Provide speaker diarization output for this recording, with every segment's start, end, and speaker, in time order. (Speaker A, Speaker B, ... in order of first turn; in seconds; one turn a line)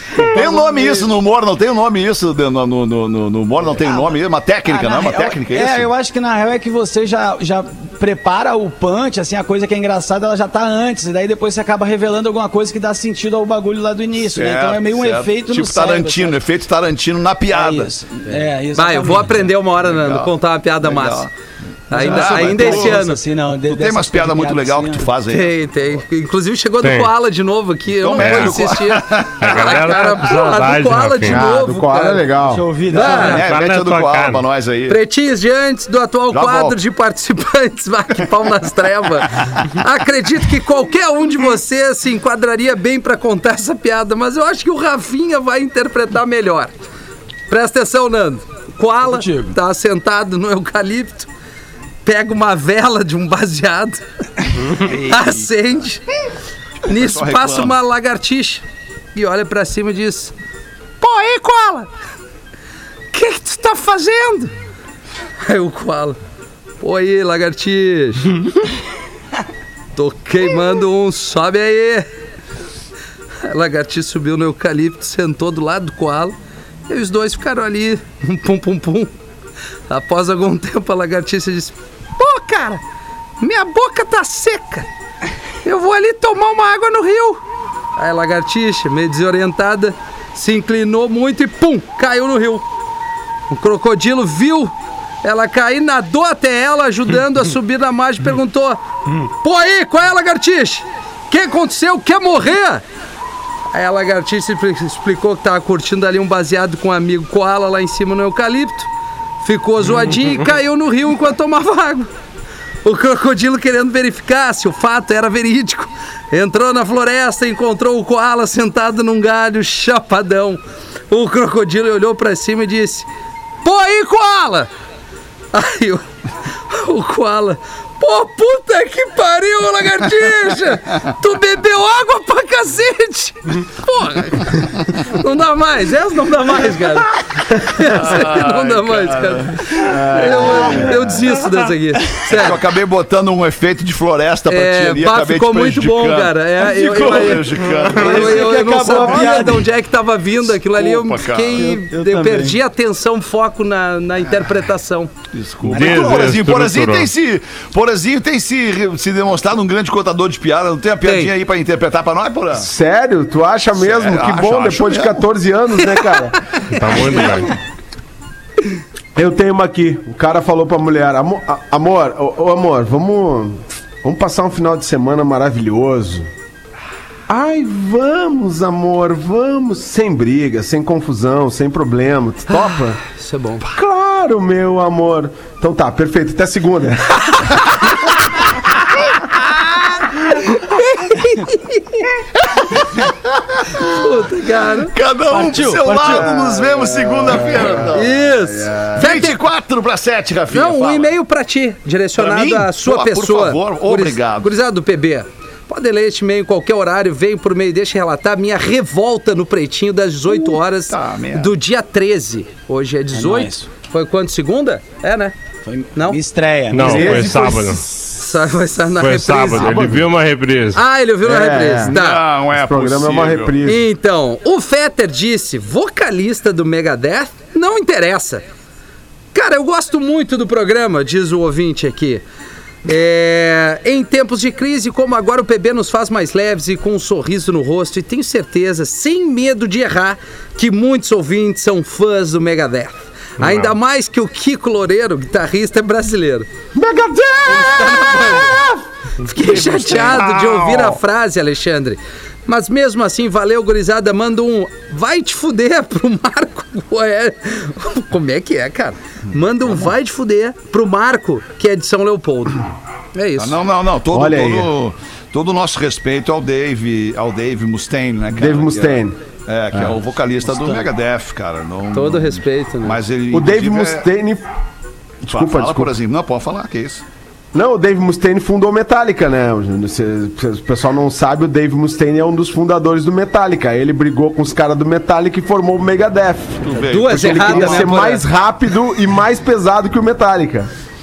Speaker A: 0.1-5.9
Speaker B: 0.2-1.0
Speaker B: 4.7-16.4
Speaker A: 14.3-17.9
Speaker B: 17.5-19.4
Speaker C: 18.7-21.3
Speaker A: 19.8-21.3
Speaker C: 21.9-23.2
Speaker B: 21.9-25.1
Speaker A: 21.9-23.0
Speaker A: 23.6-25.5
Speaker C: 25.3-32.3
Speaker D: 26.8-27.1
Speaker A: 28.0-30.5
Speaker D: 28.1-28.6
Speaker D: 29.4-31.4
Speaker E: 31.2-32.6
Speaker B: 32.4-33.4
Speaker C: 32.9-33.4
Speaker A: 32.9-35.0
Speaker D: 33.1-34.4
Speaker C: 34.9-46.8
Speaker A: 36.3-36.8
Speaker C: 47.5-51.3
Speaker B: 49.0-49.5
Speaker C: 52.0-54.0
Speaker A: 54.8-55.5
Speaker C: 54.9-56.0
Speaker A: 56.8-57.7
Speaker C: 56.8-60.3
Speaker C: 61.0-61.9
Speaker C: 63.1-64.5
Speaker C: 65.4-66.2
Speaker C: 66.8-68.6
Speaker C: 70.0-72.0
Speaker C: 73.4-76.3
Speaker C: 76.9-79.1
Speaker C: 79.9-82.8
Speaker C: 83.4-84.8
Speaker C: 85.6-87.4
Speaker C: 88.0-92.6
Speaker C: 93.5-102.8
Speaker C: 103.7-108.9
Speaker C: 109.4-112.1
Speaker C: 112.8-123.1
Speaker C: 123.6-124.7
Speaker C: 125.5-126.0
Speaker C: 126.7-142.6
Speaker A: 137.8-141.1
Speaker E: 139.8-140.9
Speaker A: 142.2-148.4
Speaker C: 144.5-155.1
Speaker B: 147.8-149.6
Speaker A: 150.5-151.7
Speaker B: 151.6-152.6
Speaker A: 155.3-162.7
Speaker D: 155.7-157.1
Speaker C: 161.0-161.3
Speaker E: 162.5-166.4
Speaker A: 163.7-165.2
Speaker D: 166.7-167.5
Speaker E: 169.1-176.3
Speaker E: 177.3-183.0
Speaker C: 183.1-183.7
Speaker E: 183.7-187.9
Speaker C: 190.5-192.1
Speaker A: 192.5-193.1
Speaker A: 193.7-194.0
Speaker C: 193.8-194.9
Speaker A: 194.8-198.2
Speaker B: 195.3-196.3
Speaker E: 195.9-199.2
Speaker C: 197.9-199.4
Speaker A: 198.9-201.1
Speaker C: 200.5-215.3
Speaker A: 202.2-204.5
Speaker A: 210.3-211.5
Speaker B: 213.1-213.7
Speaker B: 215.7-217.4
Speaker D: 216.7-217.8
Speaker E: 216.8-217.9
Speaker C: 218.0-219.9
Speaker D: 219.0-220.8
Speaker E: 219.5-220.1
Speaker C: 220.7-222.2
Speaker E: 221.2-221.9
Speaker A: 221.9-223.5
Speaker E: 222.5-223.9
Speaker C: 223.6-228.4
Speaker C: 229.3-232.2
Speaker C: 232.8-246.4
Speaker D: 243.4-243.8
Speaker E: 246.7-248.8
Speaker C: 247.5-248.7
Speaker C: 249.2-263.6
Speaker A: 249.5-250.3
Speaker D: 250.4-250.9
Speaker A: 259.6-259.9
Speaker A: 263.4-274.0
Speaker E: 264.1-264.7
Speaker E: 268.3-269.1
Speaker E: 269.7-270.0
Speaker C: 271.9-273.0
Speaker E: 273.3-274.4
Speaker E: 275.2-275.9
Speaker A: 275.3-277.0
Speaker E: 277.5-290.7
Speaker A: 286.6-288.1
Speaker C: 286.9-288.2